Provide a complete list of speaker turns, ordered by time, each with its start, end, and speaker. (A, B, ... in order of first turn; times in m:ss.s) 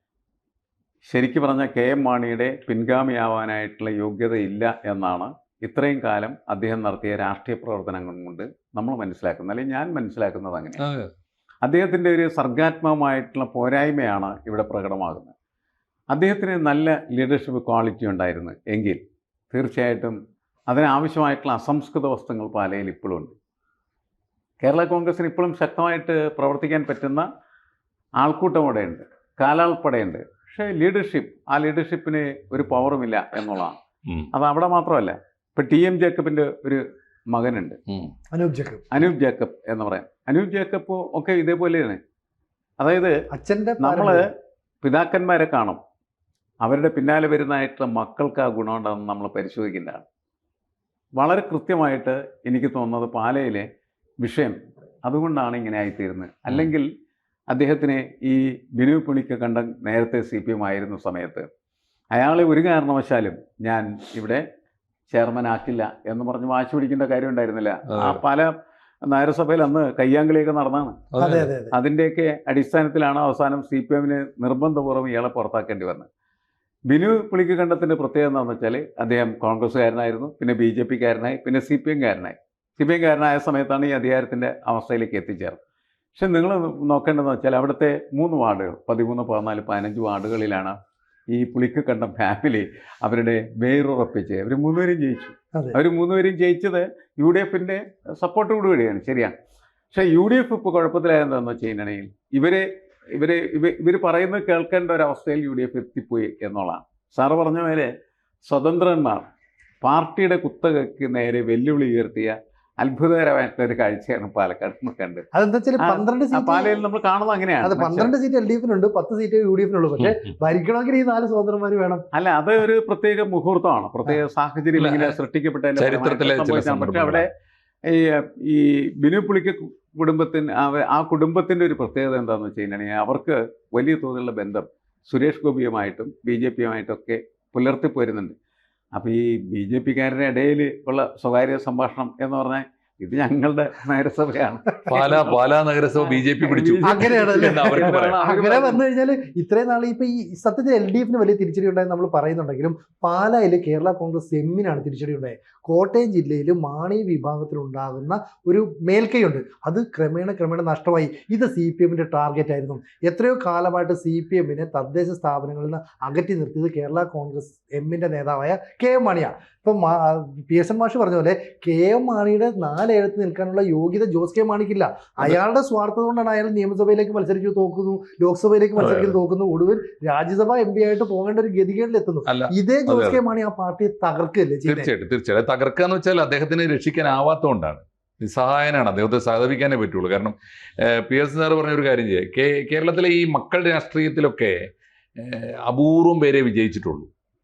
0:01.1-0:10.8 A
0:10.8-0:11.1 B
0:11.6-0:15.3 A
0:16.1-0:19.0 A
0:19.5-0:20.2 A
0:20.7-0:23.3 A
0:24.6-0:27.2 A
0:28.2-0:33.8 A
0:34.3-0:37.8 A
0:38.3-0:38.8 C
0:38.9-0:42.0 A
0:42.8-0:43.1 A
0:43.3-0:44.2 C
0:43.8-0:44.2 A
0:44.8-0:45.8 A
0:46.6-0:50.0 A
0:51.2-0:53.6 A
0:54.2-0:56.8 A
0:57.5-1:01.4 A
1:02.1-1:04.4 A
1:05.1-1:08.5 A
1:07.9-1:08.2 B
1:09.0-1:11.0 A
1:11.1-1:11.5 B
1:11.2-1:11.7 C
1:11.7-1:16.1 A
1:16.9-1:25.6 A
1:26.2-1:30.7 A
1:31.3-1:39.3 A
1:39.9-1:47.9 A
1:48.5-1:49.2 A
1:49.8-1:55.2 A
1:55.3-1:56.7 C
1:55.8-1:58.1 A
1:57.6-2:02.0 C
2:02.1-2:07.3 A
2:04.8-2:05.1 B
2:05.8-2:07.2 B
2:07.9-2:18.3 A
2:18.9-2:28.8 A
2:24.9-2:28.2 B
2:26.8-3:04.9 C
2:58.8-2:59.2 B
3:02.3-3:03.2 B
3:04.6-3:14.6 B
3:15.2-3:17.1 B